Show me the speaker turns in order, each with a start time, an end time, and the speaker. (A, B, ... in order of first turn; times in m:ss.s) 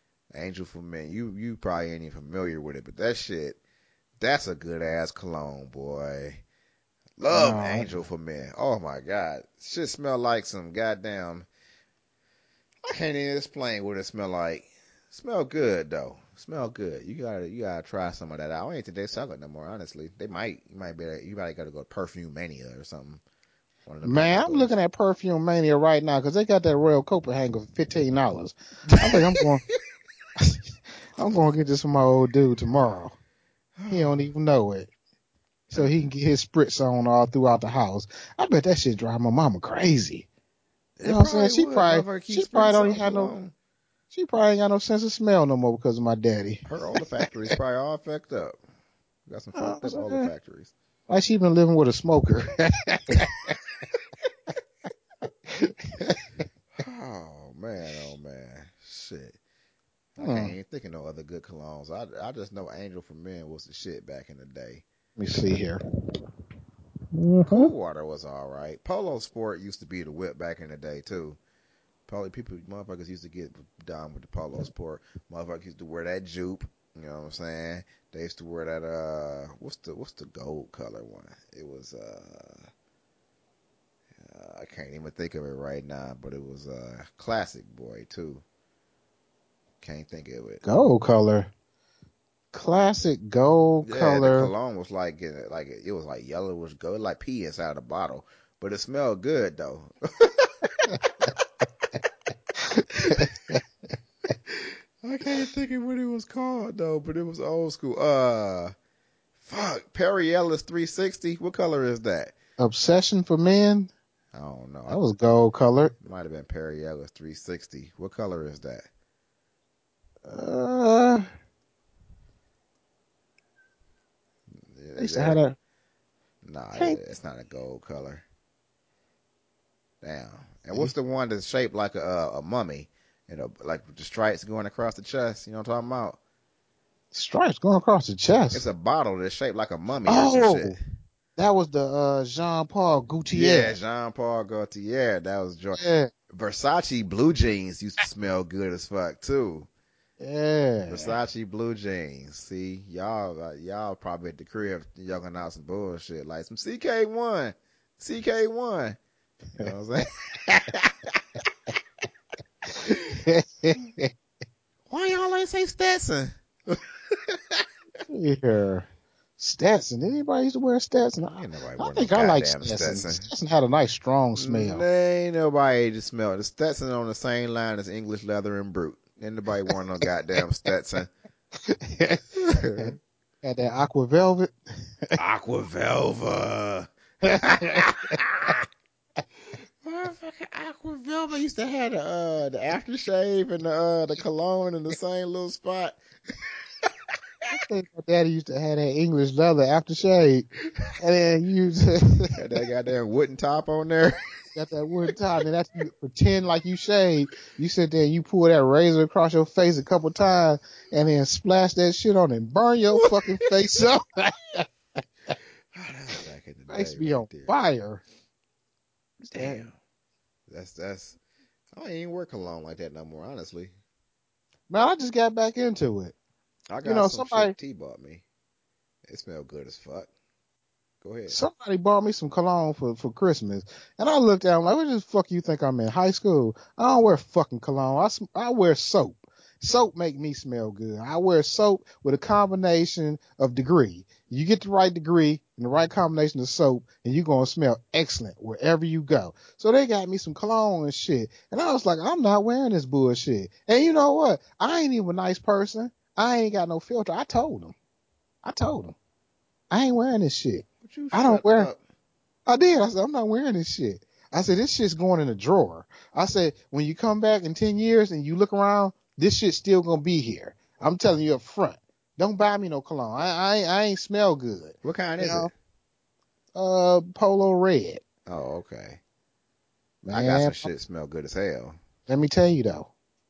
0:00.3-0:03.6 A
0:04.2-0:06.4 A
0:07.2-0:11.5 A
0:07.2-0:08.0 B
0:12.9-0:23.2 A
0:23.9-0:24.8 A
0:24.0-0:29.6 B
0:28.9-0:29.4 A
0:31.2-0:33.2 B
0:33.8-0:34.3 A
0:33.9-0:34.9 B
0:35.7-0:40.3 B
0:35.7-0:36.1 A
0:41.0-0:43.5 A
0:41.0-0:43.3 B
0:44.1-0:46.6 B
0:46.7-0:48.6 A
0:49.3-0:50.7 A
0:49.6-0:50.3 B
0:51.1-0:53.6 B
0:55.5-0:56.2 B
0:56.8-0:59.4 A
1:00.2-1:04.8 A
1:00.2-1:00.5 B
1:05.2-1:05.8 B
1:07.1-1:07.7 B
1:07.5-1:11.4 A
1:12.1-1:22.7 A
1:24.2-1:28.4 A
1:29.8-1:30.6 A
1:30.6-1:31.5 B
1:32.5-1:34.5 B
1:33.8-1:40.7 A
1:42.6-1:43.6 B
1:43.0-1:43.3 A
1:44.5-1:48.7 A
1:49.4-1:52.3 A
1:52.6-1:53.9 B
1:54.3-1:55.0 A
1:54.9-1:55.9 B
1:56.0-1:58.9 A
2:00.3-2:01.3 B
2:04.6-2:05.4 A
2:05.0-2:05.6 B
2:06.4-2:08.2 A
2:10.0-2:16.2 A
2:17.1-2:18.6 B
2:18.5-2:20.8 A
2:20.1-2:20.8 B
2:21.4-2:23.8 B
2:23.3-2:29.7 A
2:25.8-2:26.1 B
2:30.2-2:31.2 B
2:30.9-2:39.0 A
2:39.6-2:40.9 A
2:42.8-2:44.1 B
2:44.9-2:47.6 A
2:48.1-2:48.9 B
2:49.4-2:54.8 B
2:51.3-2:53.2 A
2:54.4-3:01.1 A
3:01.6-3:05.2 B
3:02.4-3:03.0 A
3:05.2-3:08.6 A
3:07.2-3:08.2 B
3:09.8-3:16.0 A
3:17.5-3:20.5 B
3:21.0-3:22.4 B
3:22.4-3:24.2 A
3:24.6-3:34.7 B
3:33.0-3:33.5 A
3:35.7-3:37.5 A
3:36.7-3:38.0 B
3:39.2-3:39.7 B
3:39.3-3:39.7 A
3:40.5-3:41.2 A
3:41.8-3:43.7 A
3:44.7-3:46.2 B
3:46.7-3:48.2 A
3:46.8-3:47.6 B
3:49.1-3:50.1 A
3:51.0-3:51.4 A
3:51.3-4:17.7 B
4:18.4-4:19.0 B
4:19.7-4:21.7 B
4:20.8-4:21.8 A
4:22.5-4:35.5 B
4:34.8-4:35.5 A
4:36.6-4:38.0 B
4:38.3-4:39.0 A
4:40.0-4:40.7 B
4:40.1-4:41.8 A
4:42.1-4:42.9 B